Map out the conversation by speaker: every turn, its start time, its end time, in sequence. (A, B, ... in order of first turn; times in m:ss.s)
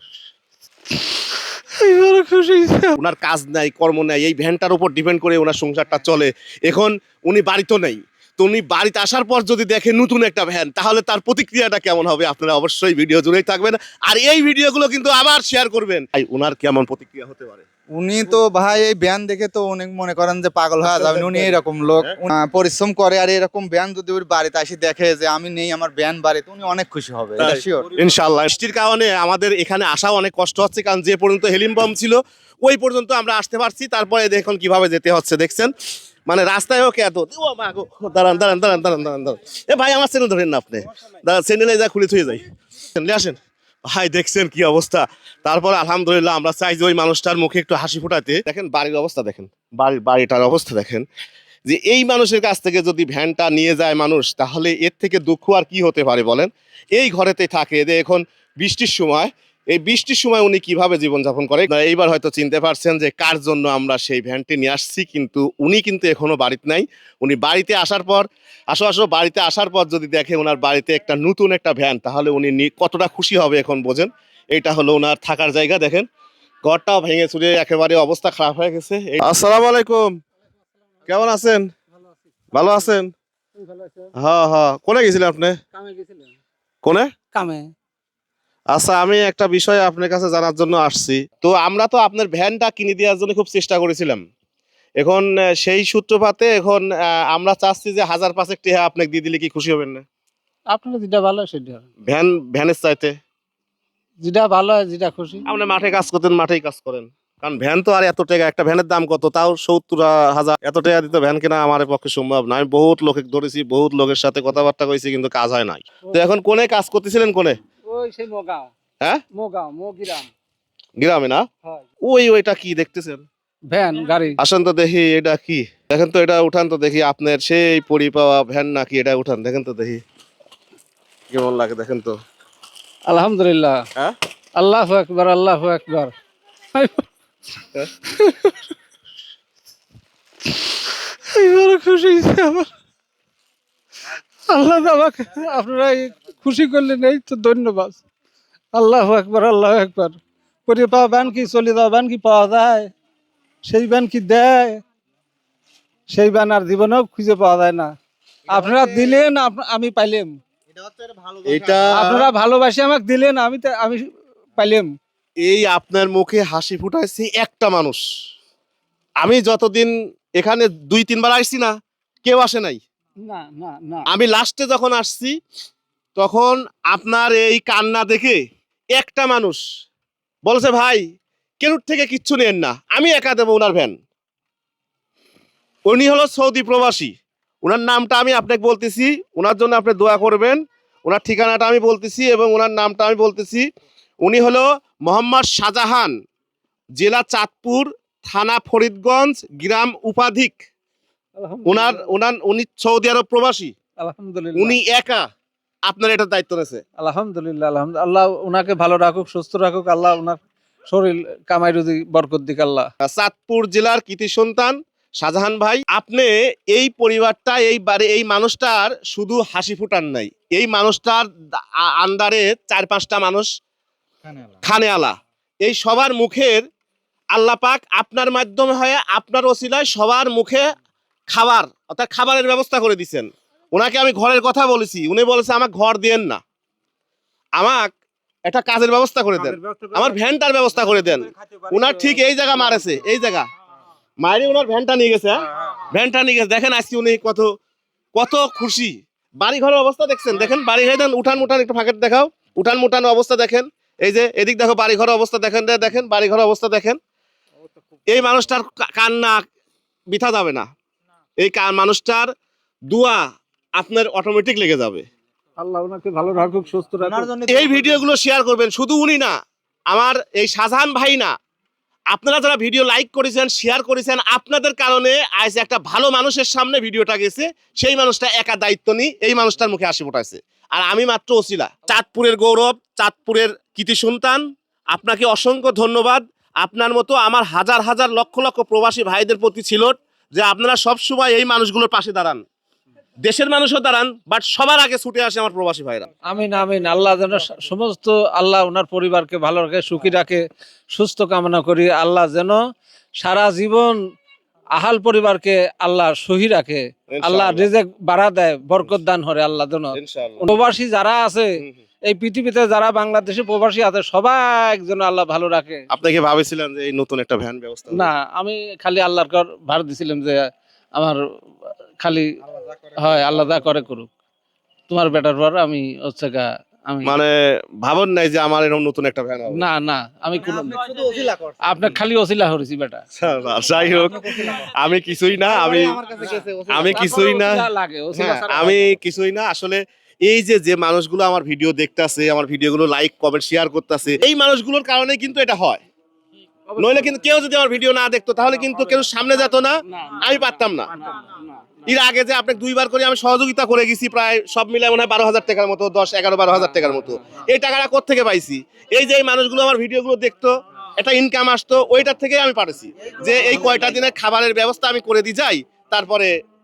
0:00.9-0:03.0 A
0:03.0-0:17.6 B
0:18.0-0:27.9 C
0:20.8-0:22.1 B
0:27.4-0:35.7 B
0:36.3-0:51.0 B
0:51.7-1:16.1 B
1:16.6-1:20.1 B
1:21.1-1:21.7 B
1:22.5-1:23.1 B
1:23.6-1:24.1 A
1:24.2-1:25.6 B
1:25.7-1:26.4 A
1:26.8-1:27.1 B
1:27.3-1:27.7 A
1:28.7-1:34.2 B
1:35.0-1:40.0 B
1:40.7-1:41.8 A
1:42.1-1:43.1 B
1:44.2-1:45.4 A
1:45.5-1:57.6 B
1:57.9-1:58.7 A
1:59.3-2:00.3 A
2:01.0-2:01.4 B
2:02.0-2:03.2 B
2:03.7-2:04.4 A
2:04.4-2:10.0 B
2:11.3-2:12.2 B
2:13.1-2:13.8 A
2:14.6-2:16.1 A
2:16.7-2:17.1 A
2:18.0-2:18.6 A
2:20.4-2:22.7 A
2:24.5-2:28.0 A
2:28.7-2:32.9 A
2:33.6-2:34.8 A
2:36.1-2:37.9 A
2:38.5-2:40.3 A
2:38.5-2:39.2 C
2:40.9-2:41.9 C
2:41.4-2:42.3 B
2:41.9-2:44.0 A
2:44.6-2:44.9 A
2:45.4-2:48.0 B
2:49.2-2:52.8 B
2:53.2-2:54.1 A
2:54.1-2:55.3 B
2:56.2-2:58.4 B
2:59.0-2:59.6 B
3:00.4-3:01.0 B
3:01.6-3:03.9 B
3:05.9-3:13.7 B
3:14.2-3:16.1 B
3:17.0-3:20.6 B
3:21.4-3:22.1 A
3:21.6-3:23.7 B
3:24.0-3:24.8 A
3:24.6-3:25.2 B
3:25.9-3:26.8 B
3:27.0-3:32.9 A
3:33.0-3:43.5 B
3:44.2-3:44.6 C
3:44.6-3:46.6 B
3:47.3-3:50.6 B
3:51.3-3:56.4 B
3:57.6-3:57.9 B
3:58.5-4:03.5 B
3:59.5-4:00.2 C
4:01.4-4:01.8 C
4:04.2-4:07.5 B
4:08.1-4:17.0 B
4:18.1-4:19.4 B
4:20.1-4:20.6 B
4:21.4-4:22.3 B
4:22.9-4:23.2 B
4:23.8-4:25.0 B
4:25.6-4:27.3 A
4:27.0-4:28.0 C
4:27.5-4:29.3 B
4:29.9-4:31.3 B
4:32.1-4:52.4 B
4:53.2-4:56.1 B
4:56.2-5:02.6 A
5:03.2-5:04.0 A
5:04.7-5:11.5 A
5:07.1-5:07.7 B
5:09.9-5:10.5 B
5:12.1-5:15.8 A
5:15.9-5:18.1 B
5:17.9-5:21.2 A
5:22.0-5:22.3 A
5:23.0-5:24.1 A
5:24.9-5:27.2 A
5:27.0-5:29.7 B
5:29.5-5:30.9 A
5:30.4-5:31.8 C
5:31.6-5:33.0 A
5:33.2-5:45.8 B
5:33.9-5:34.6 C
5:35.5-5:37.1 C
5:36.9-5:39.0 A
5:46.7-5:47.1 A
5:46.8-5:50.9 B
5:50.0-5:50.2 A
5:51.0-5:51.4 A
5:51.8-6:06.3 B
6:03.1-6:03.9 C